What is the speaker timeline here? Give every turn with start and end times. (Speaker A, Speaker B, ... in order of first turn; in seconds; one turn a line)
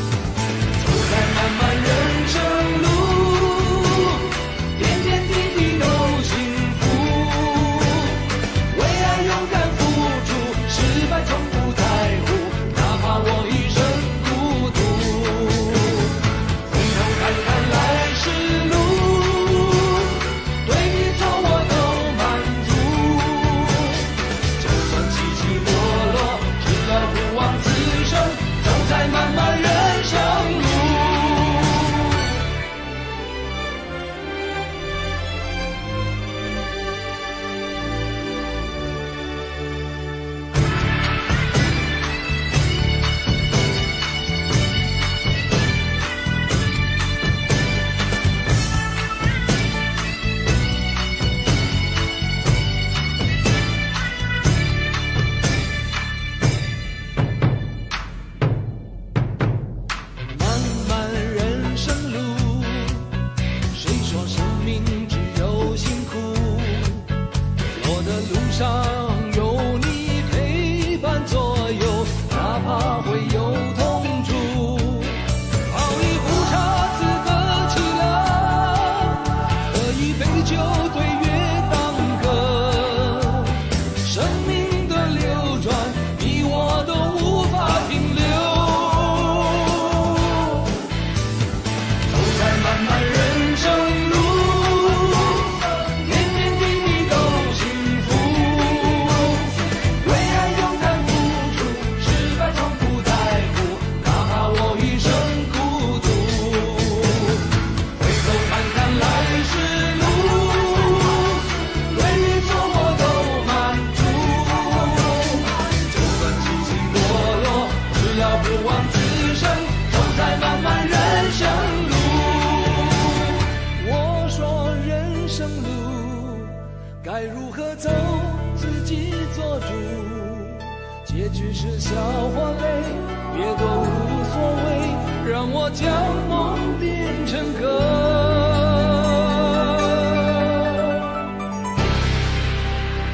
Speaker A: 0.8-32.1
Speaker A: 60.2-63.1
Speaker A: 63.7-67.1
Speaker A: 67.7-90.7
Speaker A: 92.0-140.8